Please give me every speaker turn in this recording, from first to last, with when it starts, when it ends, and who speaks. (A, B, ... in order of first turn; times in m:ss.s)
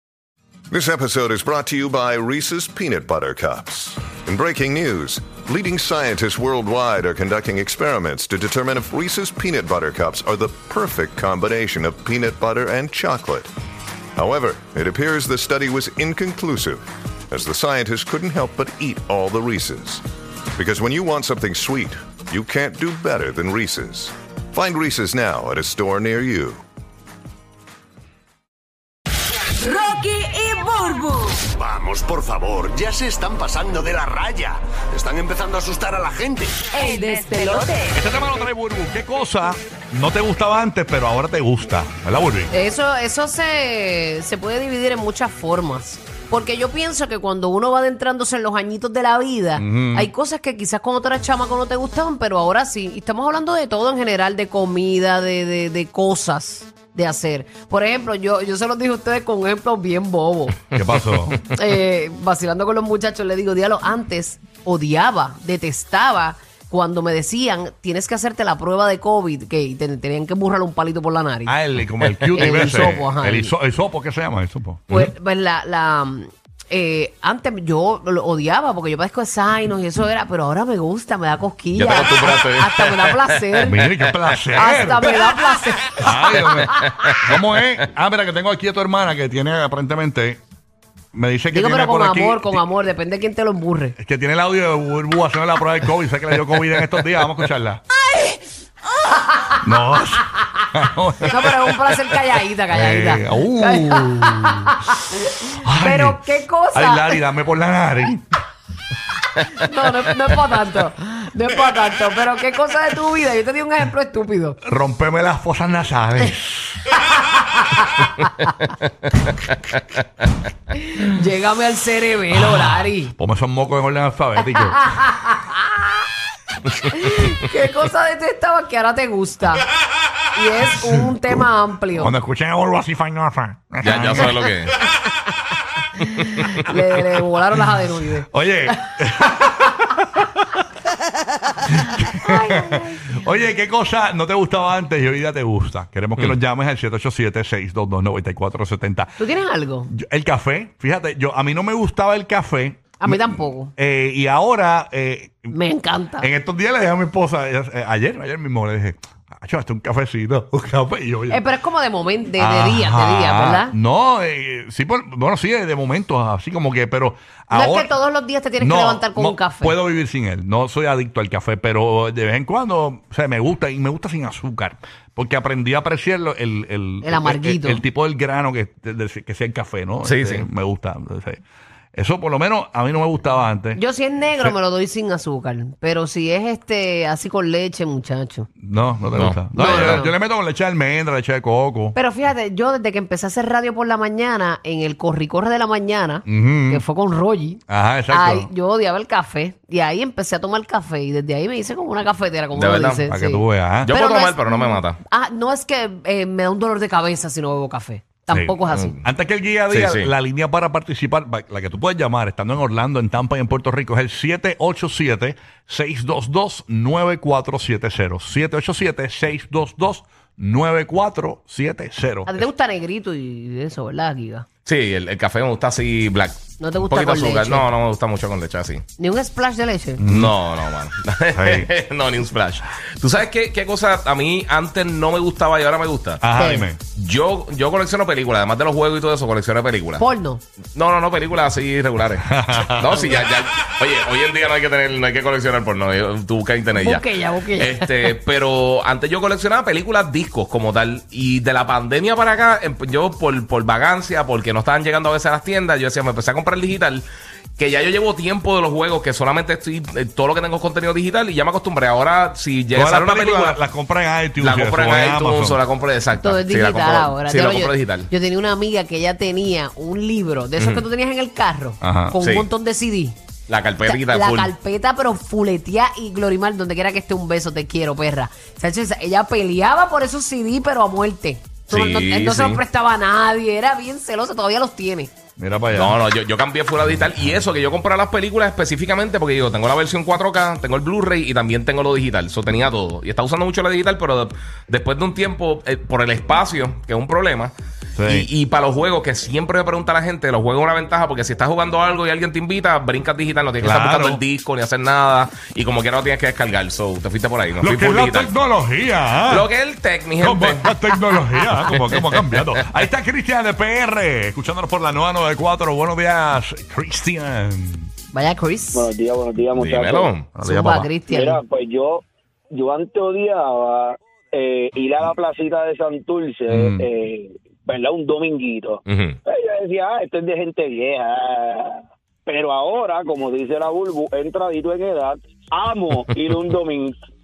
0:00.7-0:13.5 A
0:14.2-0:20.0 A
0:20.5-0:26.6 A
0:29.6-0:31.5 B
0:31.5-0:36.6 C
0:36.7-0:37.9 B
0:37.9-0:42.5 D
0:42.5-1:00.6 E
0:49.6-0:50.1 D
1:00.7-1:01.4 D
1:00.8-1:01.3 F
1:01.5-1:11.6 E
1:11.4-1:14.9 D
1:12.2-1:12.5 F
1:12.3-1:13.5 E
1:14.9-1:23.8 E
1:21.7-1:24.4 F
1:23.6-1:25.2 D
1:24.5-1:27.0 E
1:26.0-1:30.4 D
1:31.1-1:32.6 D
1:31.5-1:34.0 E
1:34.0-1:37.8 D
1:39.1-1:39.6 E
1:39.6-1:41.7 D
1:41.2-1:47.2 E
1:42.7-1:44.7 D
1:45.6-1:48.2 D
1:49.4-1:54.6 E
1:54.6-1:56.8 D
1:57.1-1:58.1 E
2:00.7-2:03.1 E
2:02.3-2:04.9 D
2:04.5-2:05.6 E
2:06.9-2:09.6 E
2:10.3-2:12.1 E
2:10.8-2:11.1 D
2:11.9-2:14.6 D
2:13.8-2:14.7 F
2:16.5-2:18.3 E
2:18.2-2:20.6 D
2:21.7-2:29.2 D
2:22.0-2:23.2 E
2:29.2-2:29.9 E
2:29.9-2:35.6 D
2:33.0-2:33.7 E
2:35.5-2:36.3 E
2:36.2-2:41.4 D
2:41.3-2:43.8 E
2:42.4-2:47.9 D
2:47.5-2:49.7 E
2:48.6-3:01.4 D
2:57.0-2:57.8 E
3:00.0-3:00.4 F
3:01.9-3:03.8 D
3:03.7-3:08.5 E
3:08.6-3:12.0 D
3:09.1-3:10.0 F
3:09.5-3:10.1 E
3:11.9-3:29.0 E
3:16.2-3:16.8 D
3:17.7-3:18.5 D
3:22.5-3:23.0 F
3:23.1-3:23.9 D
3:23.8-3:25.0 F
3:28.3-3:42.4 D
3:28.7-3:29.0 F
3:29.7-3:30.1 F
3:42.2-3:44.4 E
3:44.6-3:48.8 F
3:46.6-3:47.7 E
3:49.0-3:50.0 E
3:50.0-3:50.3 D
3:50.0-3:56.2 F
3:51.3-3:51.7 D
3:56.2-3:56.8 D
3:56.3-3:56.7 E
3:56.9-4:00.0 F
4:00.0-4:00.4 E
4:00.8-4:17.0 F
4:02.2-4:02.9 D
4:06.7-4:08.1 E
4:17.6-4:23.6 F
4:22.7-4:25.6 D
4:24.4-4:28.1 F
4:26.2-4:33.2 E
4:30.6-4:30.8 F
4:31.8-4:32.2 D
4:32.2-4:32.5 F
4:33.5-4:34.5 F
4:33.8-4:45.1 E
4:41.7-4:42.6 F
4:45.4-4:46.0 D
4:45.7-4:57.5 F
4:58.0-4:58.3 D
4:58.0-5:08.4 F
5:03.6-5:04.2 D
5:07.6-5:09.5 D
5:09.3-5:10.8 F
5:10.2-5:17.9 D
5:11.5-5:12.5 F
5:18.1-5:18.9 E
5:18.7-5:20.1 G
5:19.5-5:20.3 F
5:20.4-5:20.9 D
5:20.4-5:21.4 E
5:21.0-5:37.0 G
5:26.5-5:26.8 D
5:28.9-5:29.2 F